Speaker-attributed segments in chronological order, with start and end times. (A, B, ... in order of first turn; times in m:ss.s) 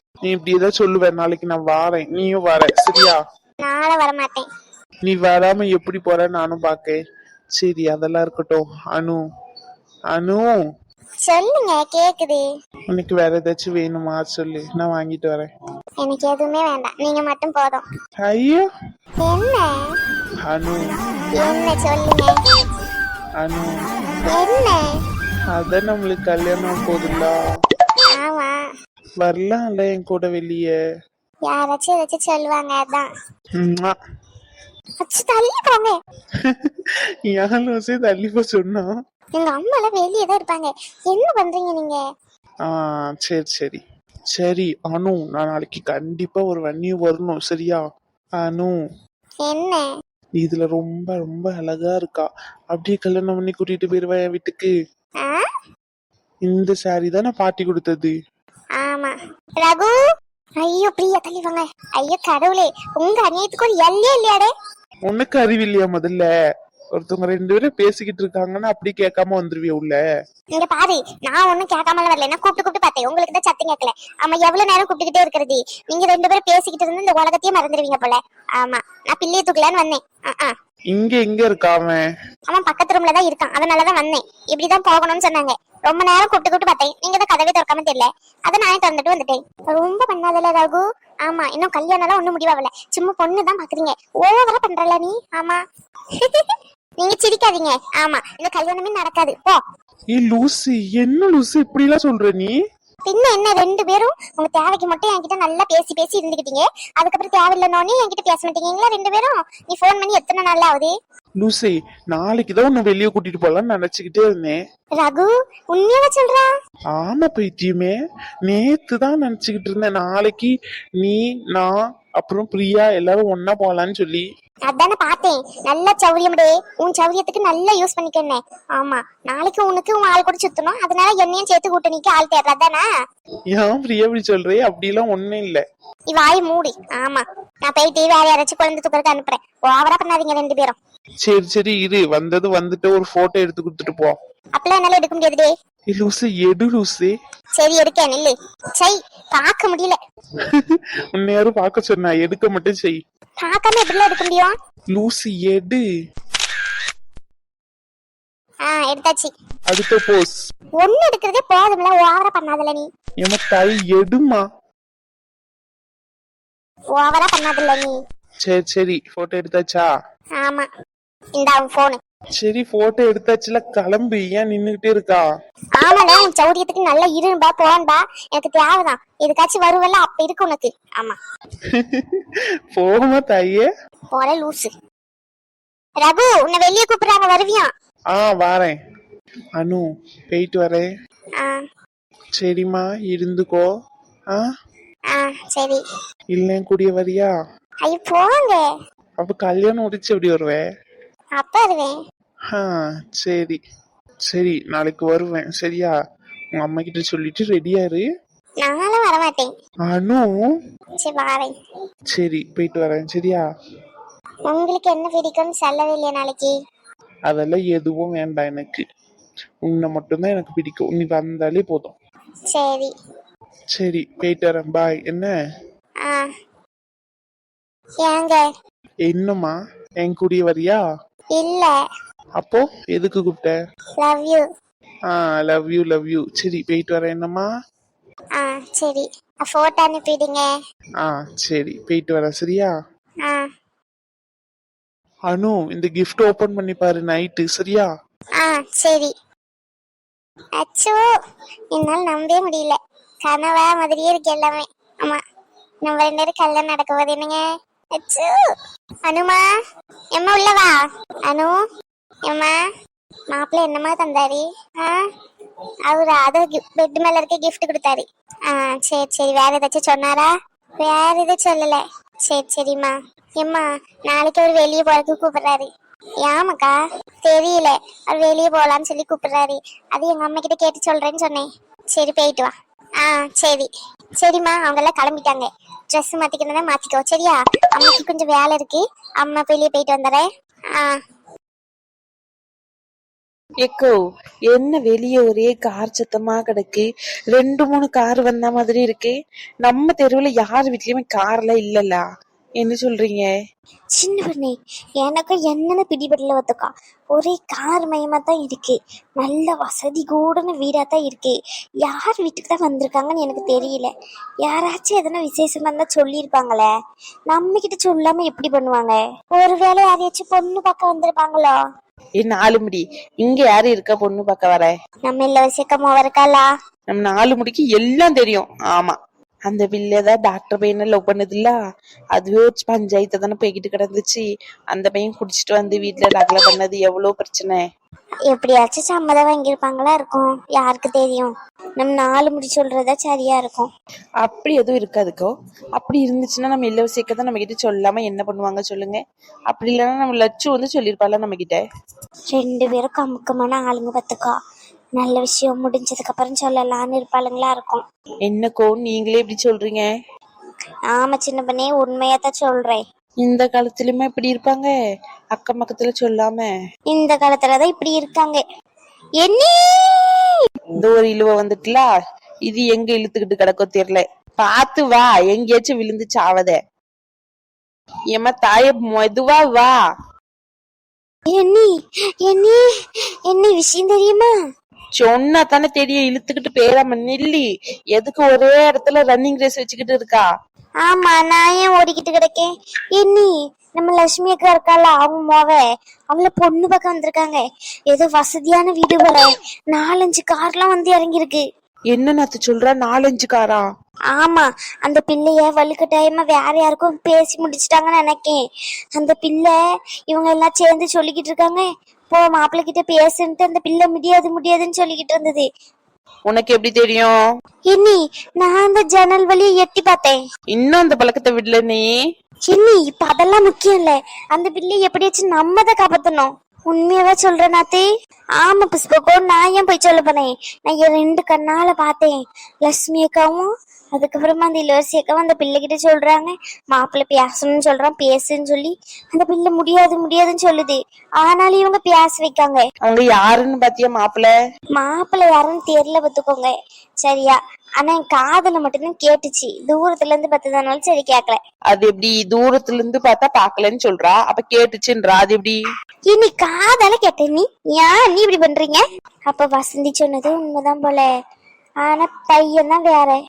0:00.2-0:03.2 A
0:03.6-0:04.4 B
0:05.0-0:07.0 A
0:07.6-0:09.2 A
0:10.1-0:10.5 A
0:11.2-0:12.4 B
0:12.9-0:15.5 A
0:16.0-0:17.8 B
0:18.2-0:18.6 A
0:19.2-0:19.8 B
0:20.4-0:21.0 A
0:21.4-0:22.4 B
0:23.4-0:23.7 A
0:24.3-0:24.9 B
0:25.5-0:27.3 A
0:28.1-0:28.6 B
0:29.2-0:30.7 A
0:31.5-0:33.1 B
0:33.6-0:34.0 A
0:35.0-0:35.9 B
0:36.4-0:38.9 A
0:39.4-0:42.0 B
0:42.7-0:43.8 A
0:44.3-0:47.8 A
0:48.4-0:48.8 A
0:49.4-0:49.8 B
0:50.4-0:54.7 A
0:56.4-0:58.1 A
0:58.8-1:00.0 B
1:00.6-1:04.5 B
1:05.1-1:06.3 A
1:07.0-1:10.0 A
1:10.6-1:20.5 B
1:20.9-1:22.0 A
1:22.5-1:35.6 B
1:36.2-1:39.6 B
1:40.1-1:42.5 A
1:43.1-1:50.9 B
1:51.4-1:54.6 A
1:55.0-1:56.5 B
1:56.9-1:57.9 A
1:58.4-2:04.2 A
2:04.7-2:12.8 B
2:13.5-2:15.6 A
2:16.1-2:20.8 B
2:21.2-2:24.2 A
2:24.6-2:25.5 B
2:25.9-2:27.1 A
2:27.6-2:30.0 B
2:30.4-2:33.0 A
2:33.4-2:34.5 B
2:34.9-2:35.8 A
2:38.7-2:39.3 B
2:39.7-2:40.3 A
2:40.8-2:42.8 B
2:43.2-2:44.4 A
2:46.9-2:47.9 B
2:48.4-2:49.9 A
2:50.4-2:50.7 B
2:51.4-2:52.0 B
2:52.4-2:55.2 A
2:55.8-3:01.2 B
3:01.7-3:03.6 A
3:04.1-3:04.7 B
3:06.0-3:07.7 B
3:08.1-3:08.7 A
3:09.6-3:10.9 A
3:12.4-3:13.6 A
3:15.1-3:15.8 B
3:16.3-3:17.3 A
3:17.8-3:18.6 B
3:19.2-3:20.6 A
3:21.4-3:21.9 B
3:22.5-3:23.6 A
3:24.3-3:25.9 A
3:26.6-3:28.0 A
3:28.6-3:29.5 B
3:29.9-3:30.3 A
3:31.0-3:31.5 B
3:32.1-3:33.4 A
3:34.5-3:36.5 B
3:37.3-3:38.8 A
3:39.6-3:41.9 A
3:42.5-3:42.9 B
3:43.7-3:45.3 A
3:48.0-3:48.4 B
3:49.1-3:50.8 A
3:51.4-3:51.7 B
3:52.4-3:53.5 A
3:54.0-3:54.4 B
3:55.1-3:57.5 A
3:58.4-4:00.4 B
4:01.0-4:02.7 A
4:05.3-4:07.9 A
4:08.4-4:09.1 B
4:10.6-4:11.0 B
4:11.7-4:15.2 B
4:15.8-4:17.4 B
4:18.0-4:18.4 B
4:19.0-4:19.4 B
4:20.2-4:20.8 B
4:21.3-4:21.5 B
4:22.3-4:22.5 B
4:23.3-4:25.0 B
4:25.9-4:30.3 B
4:30.8-4:35.7 B
4:36.2-4:43.7 B
4:44.2-4:51.0 B
4:53.6-4:53.9 C
4:54.5-5:02.0 C
5:02.6-5:03.3 C
5:03.9-5:13.9 B
5:14.4-5:16.7 B
5:17.3-5:21.5 B
5:22.2-5:24.7 C
5:25.0-5:26.5 B
5:26.9-5:29.0 C
5:29.5-5:31.6 C
5:32.1-5:37.6 C
5:38.3-5:43.7 B
5:44.2-5:51.6 C
5:52.3-5:54.4 B
5:55.0-5:57.8 B
5:58.2-5:59.8 C
6:00.9-6:02.8 B
6:03.2-6:04.7 C
6:05.3-6:06.5 C
6:06.9-6:08.4 B
6:09.2-6:10.3 B
6:10.8-6:11.9 C
6:12.4-6:16.6 C
6:18.1-6:19.7 C
6:21.3-6:22.6 B
6:23.2-6:24.3 B
6:25.0-6:30.2 C
6:30.8-6:35.6 B
6:36.1-6:41.4 B
6:41.9-6:43.6 C
6:44.1-6:48.4 B
6:49.0-6:49.5 B
6:50.1-6:55.4 B
6:56.3-6:57.1 C
6:57.6-7:00.2 B
7:00.5-7:01.9 C
7:02.4-7:07.8 B
7:08.4-7:22.6 B
7:22.8-7:24.3 C
7:24.7-7:26.5 B
7:27.0-7:31.4 B
7:31.7-7:35.6 C
7:36.0-7:41.1 B
7:41.8-7:43.2 B